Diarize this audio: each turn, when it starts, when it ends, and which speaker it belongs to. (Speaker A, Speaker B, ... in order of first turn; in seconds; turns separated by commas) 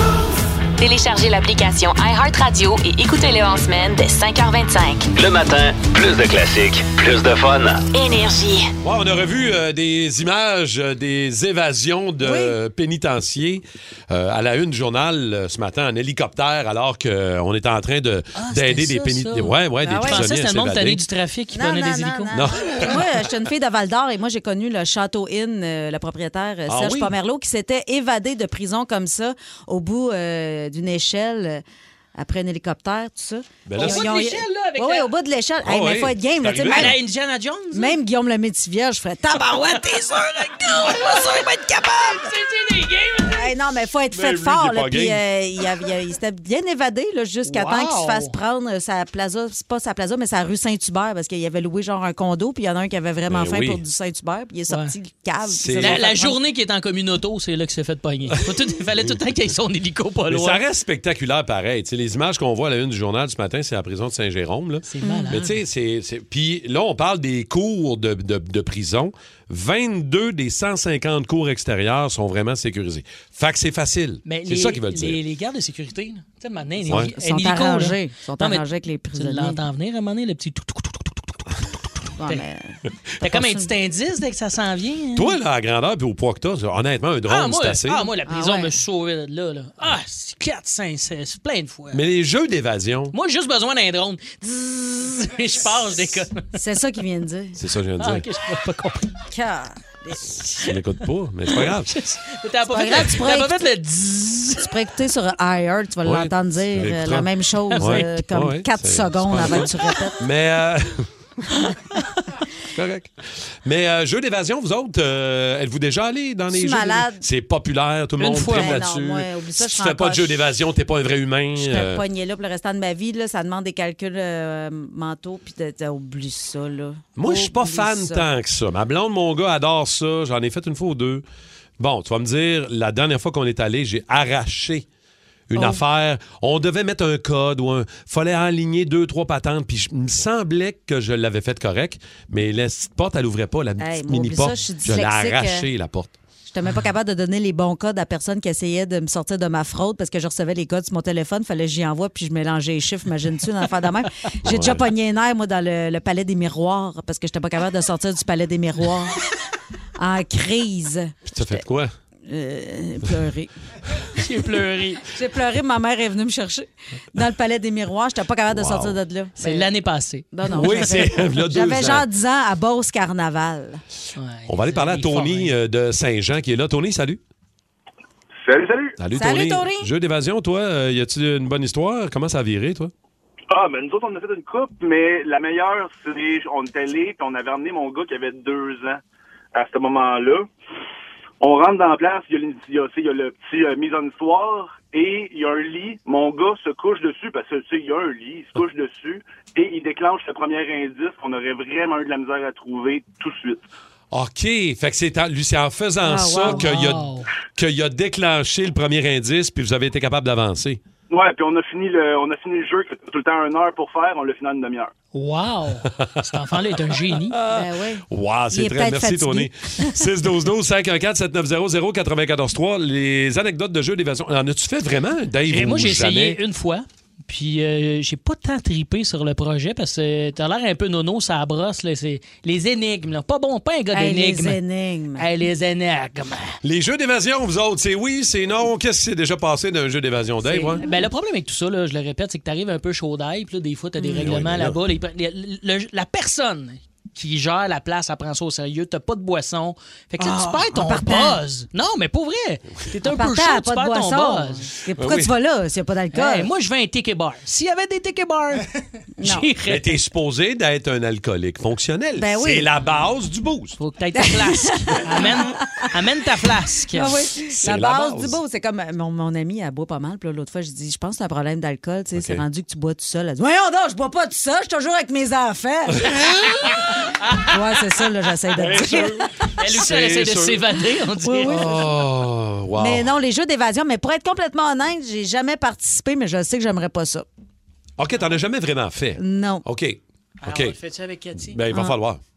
Speaker A: 0.8-5.1, Speaker B: 5.1-7.9, Speaker A: 7.9-8.7, Speaker C: 8.8-21.0, Speaker D: 12.2-12.6, Speaker E: 18.4-22.4, Speaker D: 19.8-20.2, Speaker D: 21.5-31.6, Speaker C: 22.3-23.1, Speaker C: 26.7-27.1, Speaker D: 32.2-37.0, Speaker C: 33.7-34.1, Speaker E: 33.8-35.1, Speaker C: 35.6-37.0, Speaker E: 36.7-38.0, Speaker D: 37.7-42.3, Speaker E: 40.0-43.5, Speaker D: 43.2-56.4, Speaker C: 44.1-45.2, Speaker E: 47.5-48.4, Speaker C: 53.3-53.8, Speaker C: 55.5-56.1, Speaker E: 55.8-60.6, Speaker C: 60.3-75.2, Speaker E: 64.9-65.5, Speaker D: 65.0-65.4, Speaker E: 74.3-81.5, Speaker C: 76.9-77.1, Speaker D: 76.9-79.6, Speaker D: 82.2-83.7, Speaker E: 83.2-85.3, Speaker C: 85.2-88.1, Speaker E: 87.3-92.0, Speaker D: 88.3-88.8, Speaker C: 91.9-93.2, Speaker E: 93.1-96.6, Speaker D: 96.6-97.6, Speaker C: 97.6-98.3, Speaker E: 98.0-99.2, Speaker D: 99.3-100.4, Speaker C: 100.4-102.0, Speaker E: 100.4-104.7, Speaker D: 102.7-103.6, Speaker D: 104.6-110.2, Speaker C: 106.0-111.1, Speaker E: 107.7-108.1, Speaker C: 112.7-113.1, Speaker C: 113.6-122.0, Speaker D: 116.5-117.2, Speaker E: 118.2-118.8, Speaker D: 118.4-120.4, Speaker D: 121.6-128.2, Speaker C: 127.2-131.2, Speaker C: 131.8-134.9, Speaker C: 135.5-146.2, Speaker D: 135.6-135.8, Speaker D: 143.8-145.7, Speaker D: 146.5-159.3, Speaker C: 154.4-154.9, Speaker D: 160.0-161.6, Speaker C: 161.3-161.9, Speaker D: 162.3-163.5, Speaker E: 164.2-165.1, Speaker D: 165.1-169.7, Speaker C: 168.5-169.0, Speaker E: 169.4-171.0, Speaker D: 170.3-173.8, Speaker C: 170.5-172.1, Speaker E: 174.2-175.6, Speaker C: 174.5-177.2, Speaker F: 178.4-179.0, Speaker C: 179.0-182.9, Speaker D: 179.1-179.9, Speaker F: 183.5-189.0, Speaker F: 189.5-190.5, Speaker F: 191.4-203.6, Speaker C: 204.1-210.8, Speaker D: 206.0-206.7, Speaker E: 206.4-207.3, Speaker F: 211.1-214.9, Speaker E: 215.1-217.4, Speaker C: 217.1-226.4, Speaker D: 217.5-220.0, Speaker E: 225.5-234.6, Speaker D: 233.9-235.3, Speaker E: 235.2-236.6, Speaker C: 236.6-240.8, Speaker E: 240.4-254.7, Speaker D: 244.0-244.4, Speaker C: 244.2-244.8, Speaker D: 250.2-251.4, Speaker D: 253.0-256.5, Speaker C: 255.0-255.3, Speaker E: 256.1-258.7, Speaker D: 259.2-259.5, Speaker E: 259.2-260.0, Speaker C: 259.7-263.8, Speaker D: 262.2-262.7, Speaker E: 263.8-267.1, Speaker D: 264.2-265.9, Speaker D: 266.9-279.5, Speaker C: 267.6-268.4, Speaker C: 272.1-272.4, Speaker C: 278.5-280.6, Speaker E: 279.6-281.8, Speaker D: 281.2-281.9, Speaker C: 281.4-283.2, Speaker D: 282.8-287.3, Speaker C: 288.0-290.8, Speaker D: 289.2-289.6, Speaker E: 290.4-291.6, Speaker C: 291.4-292.2, Speaker D: 291.7-292.0